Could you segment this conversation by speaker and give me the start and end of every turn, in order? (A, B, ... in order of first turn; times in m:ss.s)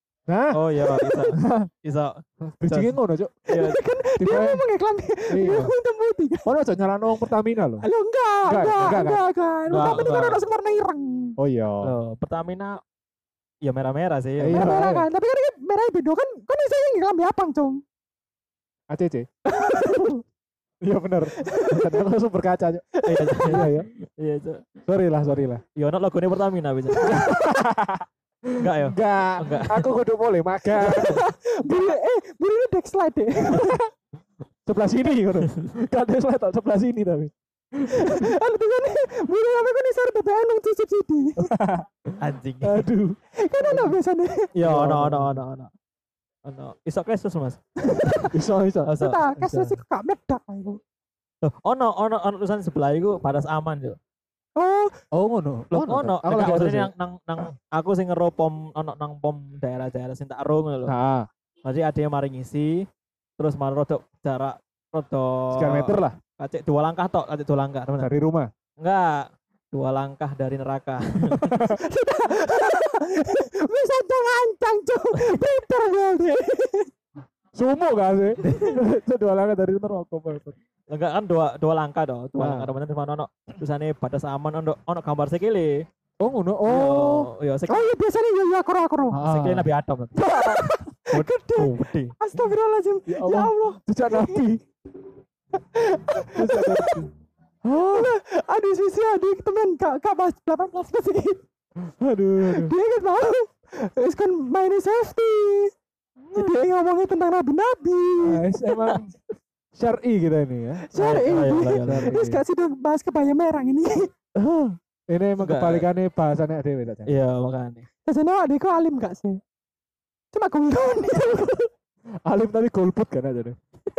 0:00.3-0:01.7 A
0:00.5-0:03.0 B
0:02.5-0:03.4 A
0:03.5-0:06.5 C
0:03.5-0:03.8 B
0:04.2-0:04.6 A
0:05.3-0:05.7 A
0:06.4-0:07.8 A
0:07.8-0:11.4 C
0:08.4-0:09.2 A
0:09.7-0:10.4 B
0:11.4-0:11.9 A
0:11.8-0:12.8 B
0:13.6-0:14.7 B
0:14.4-0:15.1 A
0:14.5-0:17.8 C
0:18.9-0:19.3 A
0:19.5-0:20.2 C
0:19.8-0:20.1 A
0:20.8-0:22.9 A
0:21.4-0:22.0 C
0:22.9-0:23.7 C
0:23.0-0:24.6 B
0:23.4-0:23.9 A
0:24.8-0:25.6 A
0:25.8-0:27.3 B
0:27.0-0:27.3 C
0:27.0-0:31.2 A
0:28.6-0:29.9 B
0:30.8-0:33.8 C
0:30.8-0:31.2 B
0:33.5-0:33.9 A
0:34.6-0:38.3 A
0:35.4-0:35.7 B
0:37.9-0:41.5 C
0:41.4-0:44.0 A
0:42.2-0:42.9 B
0:43.4-0:44.5 C
0:44.5-0:45.7 B
0:44.6-0:45.4 A
0:46.4-0:48.3 B
0:47.9-0:48.3 C
0:48.3-0:49.8 A
0:48.8-0:49.2 B
0:49.0-0:50.8 C
0:51.4-0:54.0 B
0:54.6-0:54.9 C
0:55.1-0:56.9 A
0:55.7-1:00.9 B
1:00.8-1:01.3 A
1:01.6-1:02.9 B
1:03.4-1:08.1 B
1:05.5-1:06.2 A
1:08.0-1:08.5 A
1:08.8-1:11.5 B
1:11.3-1:11.8 A
1:11.6-1:16.9 C
1:17.5-1:20.6 A
1:18.4-1:18.8 B
1:20.9-1:25.8 B
1:22.4-1:22.7 A
1:26.2-1:27.3 A
1:26.6-1:27.9 B
1:27.7-1:29.2 C
1:29.1-1:31.3 A
1:29.2-1:30.1 B
1:30.2-1:34.4 C
1:31.1-1:32.1 B
1:33.1-1:34.6 A
1:35.6-1:37.0 C
1:36.3-1:37.1 A
1:37.7-1:38.2 A
1:37.7-1:41.4 C
1:41.8-1:42.7 A
1:42.4-1:45.7 C
1:46.3-1:48.4 C
1:48.2-1:49.1 A
1:49.7-1:50.9 A
1:50.9-1:54.1 C
1:51.0-1:52.2 B
1:51.8-1:52.4 A
1:54.4-1:57.1 A
1:55.4-1:55.9 B
1:57.1-1:57.9 B
1:58.1-1:59.4 C
2:00.3-2:01.7 C
2:02.2-2:03.6 A